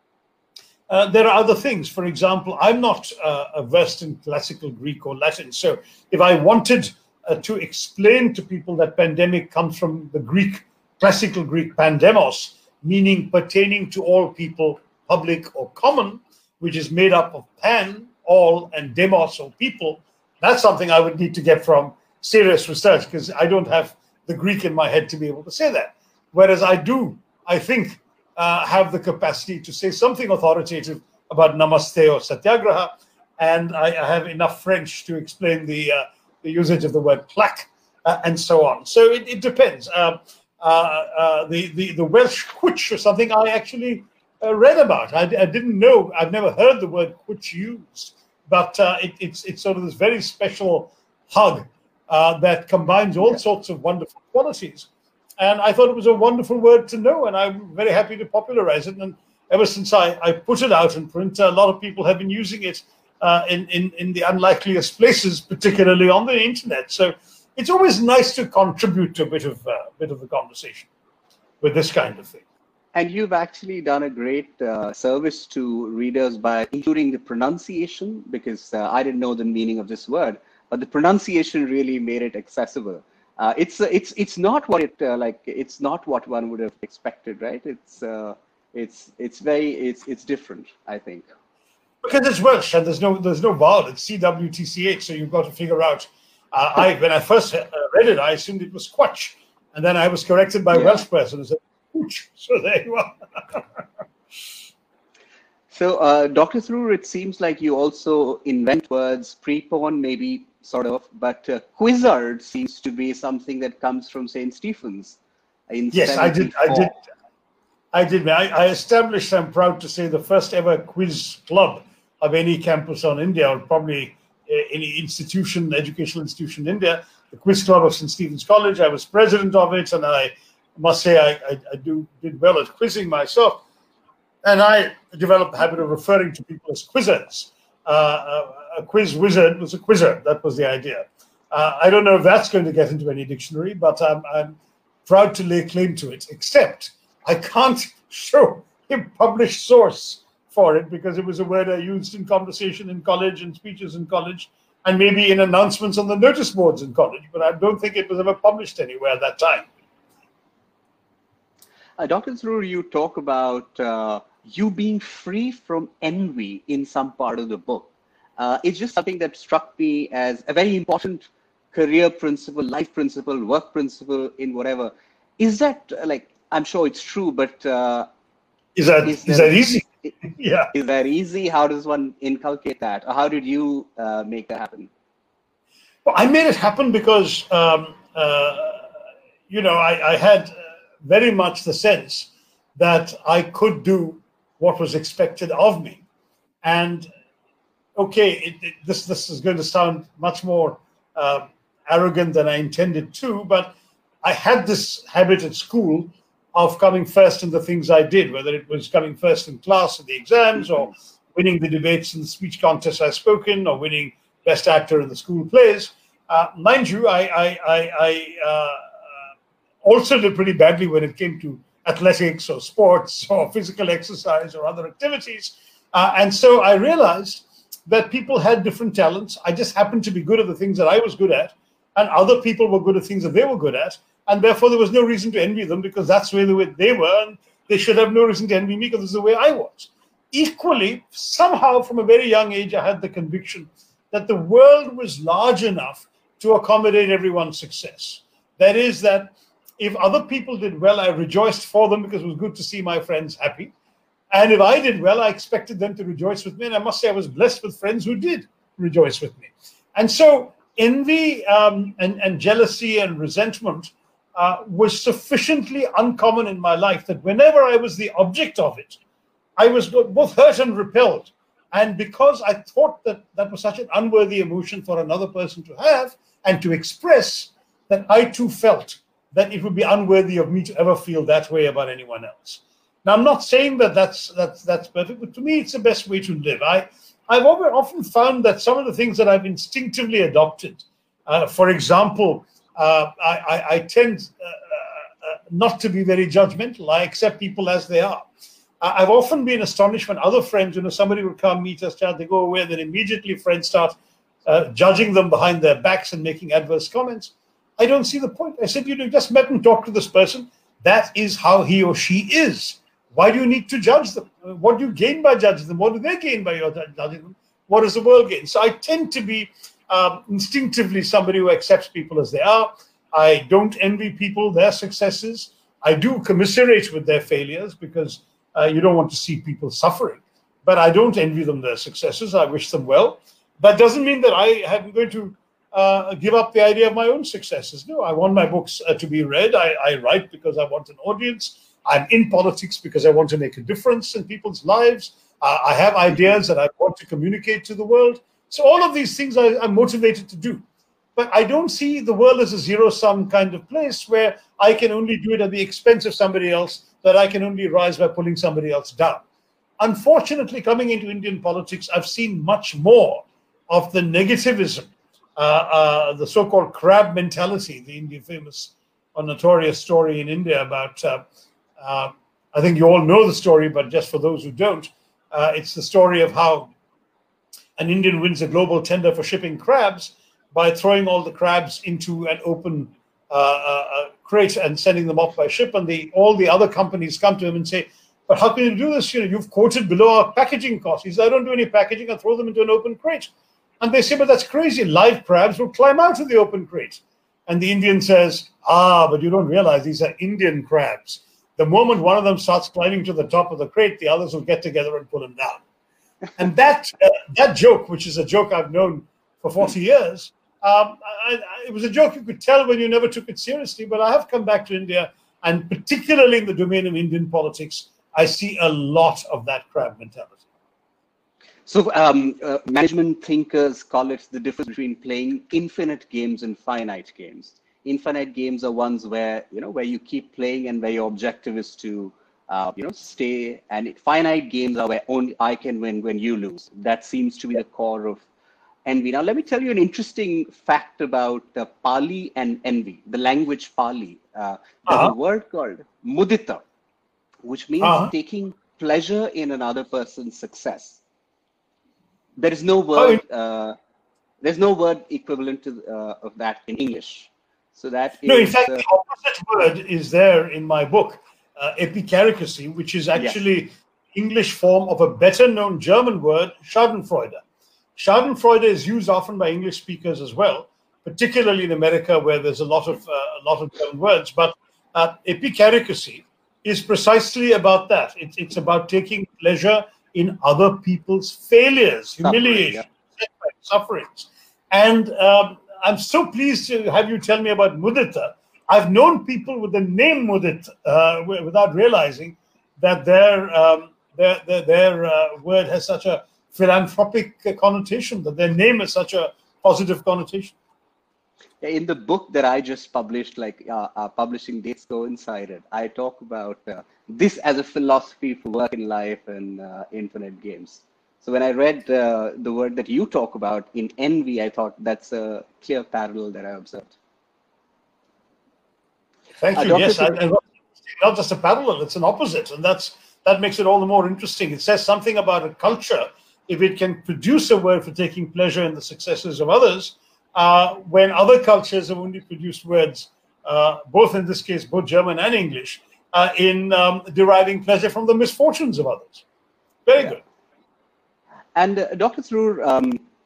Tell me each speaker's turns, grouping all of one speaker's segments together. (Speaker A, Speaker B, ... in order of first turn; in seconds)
Speaker A: 0.9-70.9, 71.6-72.4, 92.0-103.7, 115.9-117.0, 117.9-133.6, 134.4-159.7, 178.8-180.7, 186.0-188.9, 189.5-196.0, 196.6-197.1, 197.9-218.9, 219.8-253.7, 254.3-269.0, 269.6-298.3, 298.8-350.6, 351.1-359.2, 359.8-371.2, 371.8-376.7, 377.8-405.6, 406.4-420.4, 444.9-445.1, 447.8-448.1, 452.9-453.2, 458.2-467.4, 467.9-500.6, 519.4-539.2, 539.9-540.2
Speaker B: 72.9-91.2, 100.7-101.0, 105.7-115.2, 115.7-116.9, 162.0-178.1, 179.0-180.1, 180.7-184.9, 421.6-438.2, 438.9-446.6, 447.4-451.0, 452.4-453.8, 454.4-458.9, 482.2-482.8, 501.6-516.9, 519.5-520.2, 541.5-543.0